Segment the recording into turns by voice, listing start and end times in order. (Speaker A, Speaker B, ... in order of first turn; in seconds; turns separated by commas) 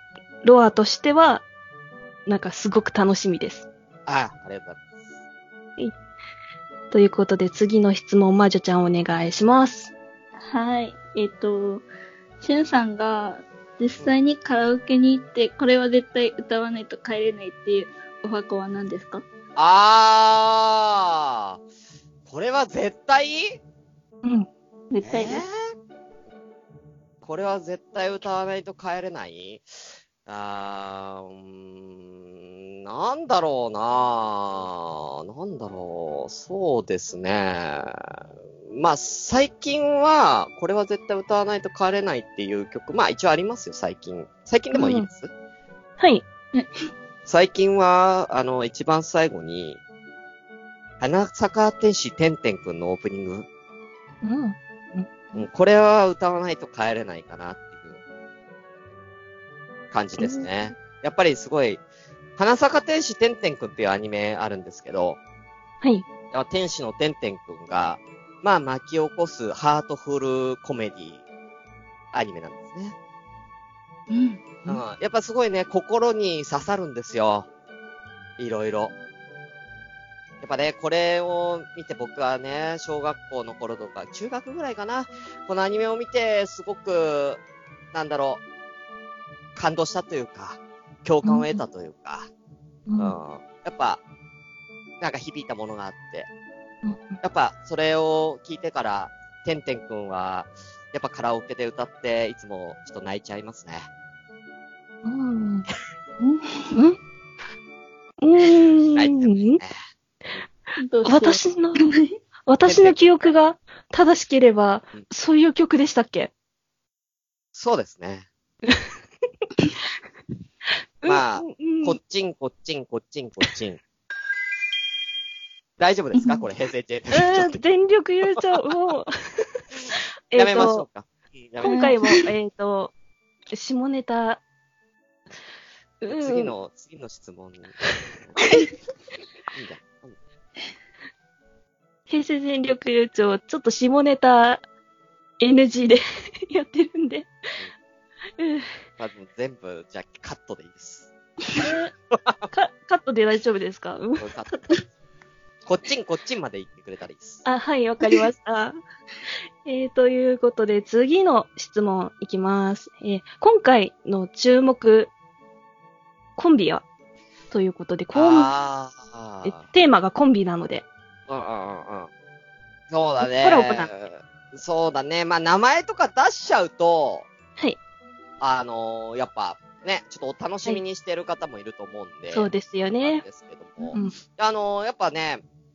Speaker A: 0.4-1.4, Speaker A: 2.3-3.7, Speaker B: 4.0-4.8, Speaker A: 6.9-9.9, Speaker C: 10.5-11.8, Speaker C: 12.4-19.2, Speaker B: 19.6-21.6, Speaker B: 22.3-23.6, Speaker A: 24.2-24.5, Speaker C: 24.9-25.4, Speaker B: 25.0-25.6, Speaker B: 27.2-29.7, Speaker B: 30.2-32.2, Speaker B: 32.8-38.0, Speaker B: 38.7-45.3, Speaker A: 44.7-45.0, Speaker A: 46.0-46.2, Speaker B: 47.2-49.8, Speaker B: 51.0-53.5, Speaker A: 54.2-55.1, Speaker B: 55.3-58.0, Speaker B: 59.9-61.8, Speaker A: 60.2-60.5, Speaker B: 62.4-65.2, Speaker B: 66.3-71.2, Speaker B: 72.1-72.9, Speaker C: 74.1-74.8, Speaker B: 74.7-77.5, Speaker B: 78.4-78.9, Speaker B: 80.4-87.4, Speaker B: 87.9-88.4, Speaker B: 89.5-92.3, Speaker A: 91.2-91.6, Speaker A: 92.9-93.1, Speaker B: 93.0-94.0, Speaker B: 95.0-96.3, Speaker A: 96.8-97.2, Speaker B: 97.2-103.9, Speaker A: 105.0-105.7, Speaker C: 106.2-106.8, Speaker A: 108.2-109.6, Speaker B: 108.4-109.8, Speaker C: 110.8-112.1, Speaker A: 111.0-111.8, Speaker A: 112.5-116.3, Speaker B: 112.6-113.1, Speaker B: 117.5-118.3, Speaker A: 121.0-122.0, Speaker B: 121.0-123.8, Speaker B: 125.8-127.6, Speaker C: 126.1-126.4, Speaker A: 127.1-129.4, Speaker A: 130.3-130.9, Speaker B: 130.3-131.9, Speaker A: 131.6-132.9, Speaker C: 131.7-132.1, Speaker A: 133.5-134.4, Speaker A: 136.0-136.5, Speaker B: 136.1-138.4, Speaker B: 139.5-140.2, Speaker A: 142.1-144.6, Speaker A: 145.4-147.3, Speaker A: 148.4-148.7, Speaker B: 149.0-151.1, Speaker A: 151.6-151.9, Speaker B: 152.1-152.5, Speaker A: 152.5-154.3, Speaker B: 154.2-154.5, Speaker B: 155.7-157.4, Speaker A: 157.4-158.8, Speaker A: 159.6-165.1, Speaker A: 166.4-166.8, Speaker A: 167.5-168.5, Speaker B: 168.1-169.7, Speaker A: 169.4-170.8, Speaker B: 171.3-172.1, Speaker B: 172.9-177.3, Speaker A: 173.2-173.9, Speaker B: 178.4-182.5, Speaker A: 182.3-183.2, Speaker B: 183.0-185.4